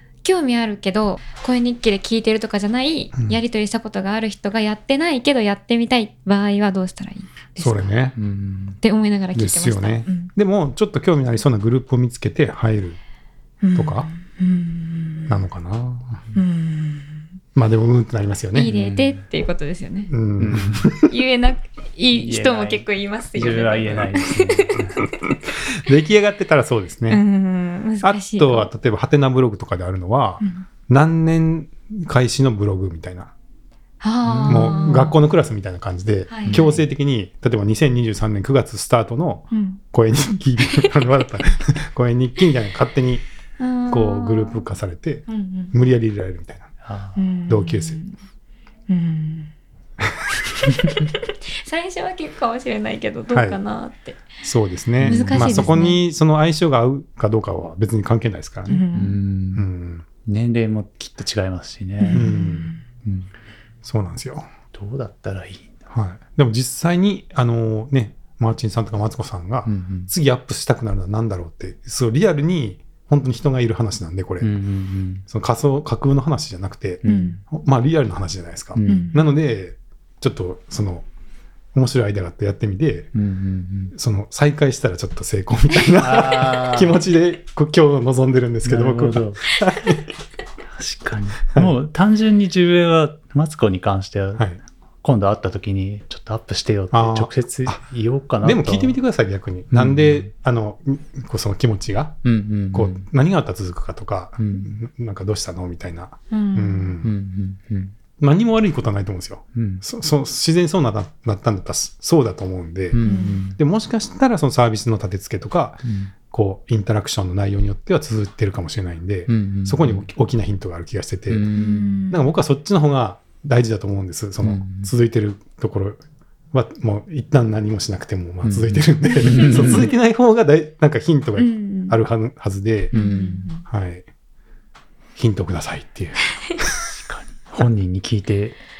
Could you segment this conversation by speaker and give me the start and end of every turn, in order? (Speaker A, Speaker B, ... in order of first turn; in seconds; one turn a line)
Speaker A: 0.2-8.0
Speaker B: 7.6-8.2
Speaker C: 8.2-8.8
Speaker A: 8.8-10.3
Speaker B: 9.3-13.0
Speaker A: 13.6-15.4
Speaker B: 13.7-14.1
Speaker B: 15.3-16.2
Speaker A: 16.3-17.2
Speaker B: 17.5-18.7
Speaker A: 18.5-20.1
Speaker C: 18.7-19.2
Speaker B: 20.1-21.1
Speaker C: 20.4-20.9
Speaker A: 21.0-24.8
Speaker C: 22.1-25.0
Speaker B: 25.0-27.2
Speaker A: 27.1-28.7
Speaker B: 28.0-33.3
Speaker A: 30.4-30.6
Speaker A: 34.0-35.2
Speaker C: 34.2-34.8
Speaker B: 34.4-43.2
Speaker A: 36.3-36.8
Speaker C: 36.5-36.7
Speaker A: 39.5-39.8
Speaker A: 43.6-44.6
Speaker B: 43.9-46.7
Speaker A: 45.3-45.7
Speaker C: 46.8-47.2
Speaker A: 47.1-48.1
Speaker B: 47.5-48.0
Speaker A: 48.9-49.5
Speaker A: 50.6-54.2
Speaker B: 53.3-53.6
Speaker B: 54.4-58.9
Speaker C: 55.0-55.8
Speaker A: 55.0-56.0
Speaker A: 58.7-59.2
Speaker C: 58.9-59.6
Speaker B: 59.5-60.0
Speaker C: 60.2-62.4
Speaker A: 62.0-62.8
Speaker B: 62.1-62.7
Speaker C: 63.0-63.3
Speaker B: 63.8-64.5
Speaker C: 64.7-65.8
Speaker B: 65.9-74.5
Speaker C: 69.7-70.1
Speaker C: 74.4-75.2
Speaker B: 75.3-81.0
Speaker C: 77.0-77.4
Speaker A: 77.0-77.4
Speaker C: 78.7-79.2
Speaker A: 78.8-79.2
Speaker B: 81.7-83.1
Speaker C: 83.1-83.9
Speaker B: 83.9-90.0
Speaker C: 85.9-87.0
Speaker C: 88.6-89.5
Speaker C: 90.7-94.5
Speaker C: 95.0-99.0
Speaker B: 96.9-97.8
Speaker B: 98.4-107.1
Speaker C: 99.7-100.3
Speaker C: 102.2-103.0
Speaker C: 104.4-104.7
Speaker A: 106.3-106.9
Speaker C: 107.0-107.9
Speaker B: 108.2-113.0
Speaker C: 109.5-109.8
Speaker C: 112.9-113.6
Speaker A: 113.0-113.4
Speaker B: 113.6-121.5
Speaker C: 115.8-116.1
Speaker C: 119.3-120.0
Speaker C: 121.3-122.0
Speaker A: 121.5-122.2
Speaker B: 122.1-126.0
Speaker C: 124.4-124.9
Speaker B: 126.5-132.9
Speaker C: 128.4-129.9
Speaker A: 129.2-129.8
Speaker A: 131.4-132.0
Speaker A: 132.9-133.6
Speaker C: 132.9-133.5
Speaker B: 133.7-134.1
Speaker B: 135.2-136.8
Speaker C: 136.9-138.6